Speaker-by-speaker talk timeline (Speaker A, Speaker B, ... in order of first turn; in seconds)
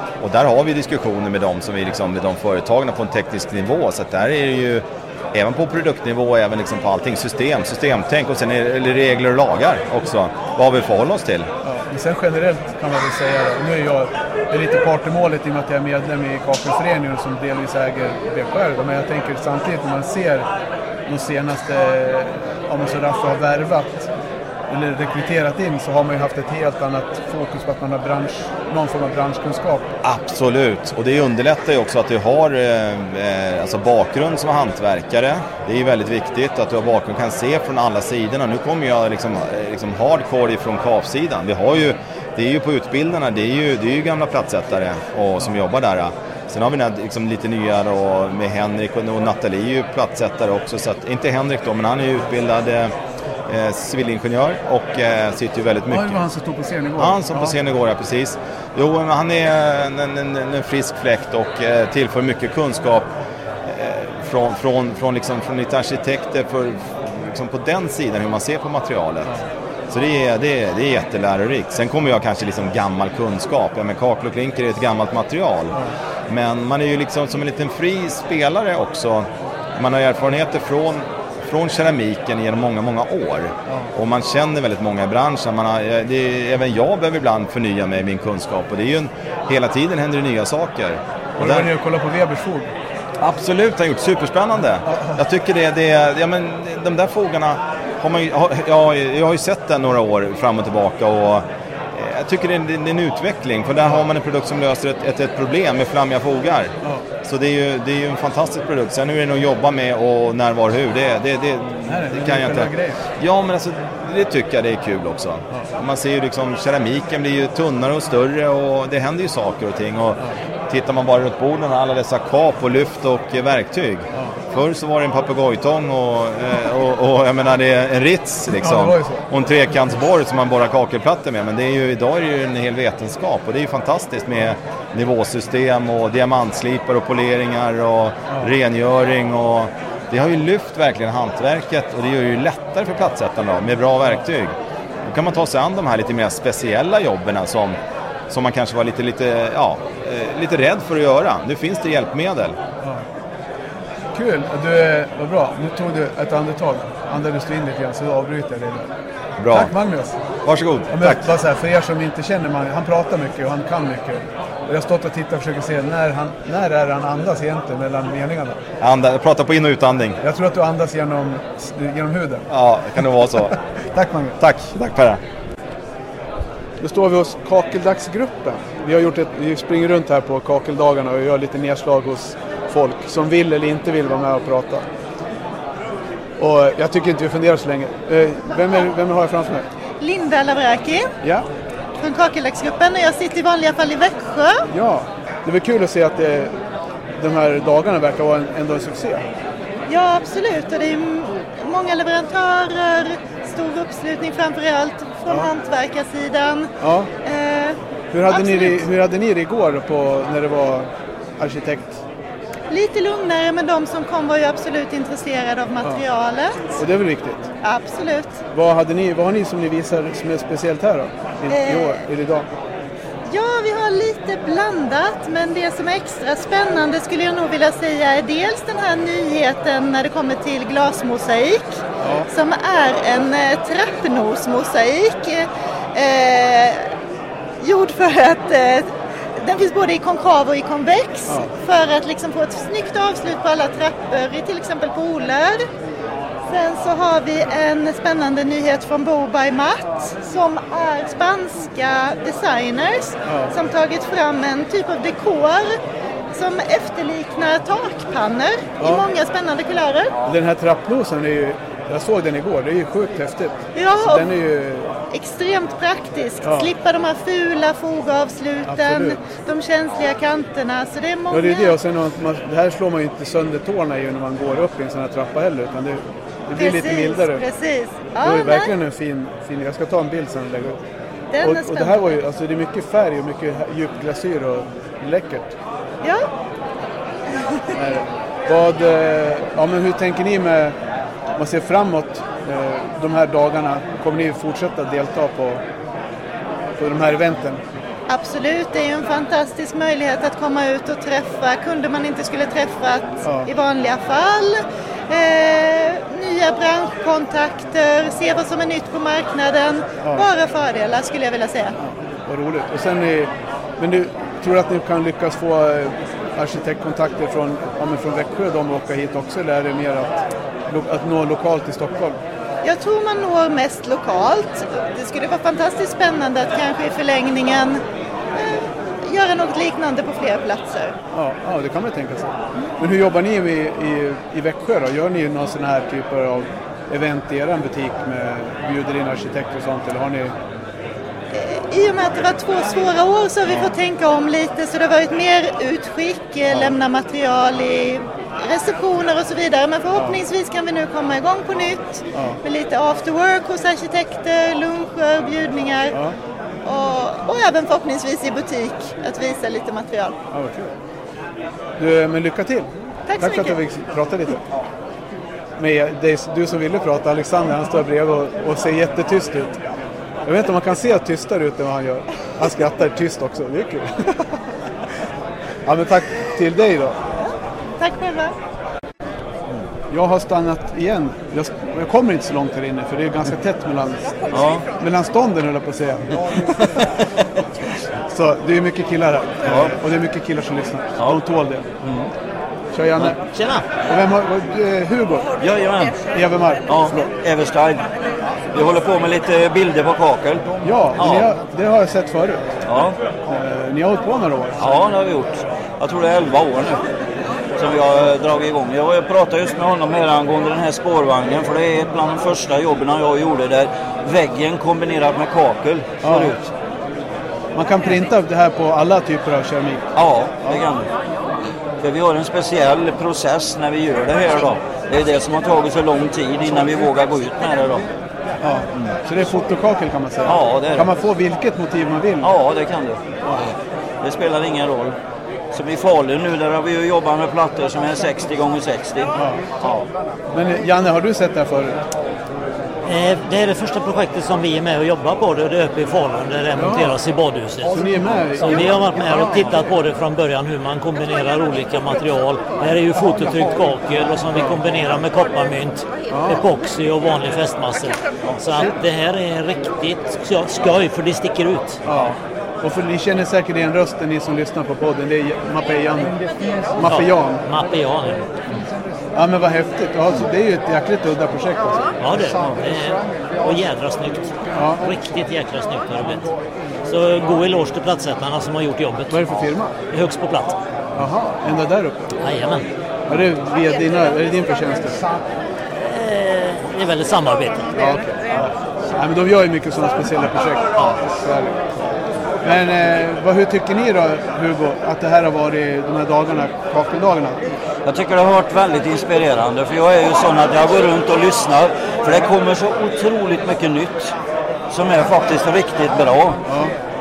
Speaker A: 0.2-11.5, 30.0-52.9, 53.5-56.2, 57.0-63.1, 63.6-69.3, 69.9-91.7, 93.2-106.7, 107.2-144.5, 145.0-147.8, 148.3-152.6, 159.4-159.7, 160.4-161.3, 168.8-170.2, 172.5-173.5, 174.4-175.2
Speaker B: 11.6-20.5, 21.1-24.1, 24.7-29.9, 55.9-57.5, 91.4-92.7, 94.9-95.2, 111.9-113.0, 128.6-129.2, 154.1-158.9, 159.5-160.2, 160.9-168.6, 170.2-172.4, 173.9-174.3, 176.8-184.8, 186.4-189.7, 191.2-191.5, 194.7-196.5, 197.2-199.2, 206.8-207.1, 208.1-212.0, 216.8-217.5, 218.5-222.5, 232.0-232.3, 253.3-253.5, 258.8-259.1, 260.2-264.9, 266.4-266.7, 268.6-269.2, 271.3-277.4, 278.2-280.8, 281.4-285.5, 287.7-290.8, 291.4-295.6, 296.8-297.6, 303.2-303.5, 311.8-320.2, 320.7-322.2, 331.1-340.3, 349.9-350.2, 352.1-352.4, 360.3-360.7, 361.8-364.4, 365.6-369.6, 370.2-374.0, 375.6-377.0, 379.9-386.4, 388.1-391.7, 392.7-393.2, 393.9-395.3, 396.1-397.1, 400.6-402.5, 403.3-404.6, 416.0-416.3, 417.5-419.9, 428.4-432.3, 433.2-433.5, 439.1-439.4, 440.3-441.8, 446.6-447.0, 447.6-448.8, 456.1-456.5, 461.9-466.2, 466.7-467.4, 469.1-471.9, 474.5-474.9, 479.1-479.7, 480.9-482.1, 483.1-485.0, 487.7-491.6, 492.4-497.4, 506.5-506.7
Speaker C: 190.0-191.1, 192.0-194.6, 199.9-206.7, 207.2-207.8, 208.3-208.8, 212.7-216.7, 217.6-218.4, 221.5-222.0, 223.3-236.9, 237.6-245.6, 246.5-255.7, 256.3-260.1, 263.7-264.3, 265.1-271.8, 276.6-278.7, 281.3-282.0, 298.1-311.8, 322.6-327.8, 328.3-330.9, 341.3-356.0, 356.6-360.2, 363.1-363.6, 377.8-378.3
Speaker D: 384.3-384.7, 389.4-389.8, 391.8-392.1, 395.4-396.0, 396.7-397.9, 398.5-401.3, 402.6-402.9, 404.6-406.8, 407.6-416.5, 419.9-420.9, 421.8-427.8, 430.2-430.9, 432.2-433.0, 434.0-434.9, 435.5-439.9, 497.8-504.1, 504.7-506.4
Speaker E: 393.3-393.6, 442.8-461.8, 466.8-468.4, 472.0-476.3, 476.9-479.3, 479.9-480.6, 482.2-482.6, 485.8-487.8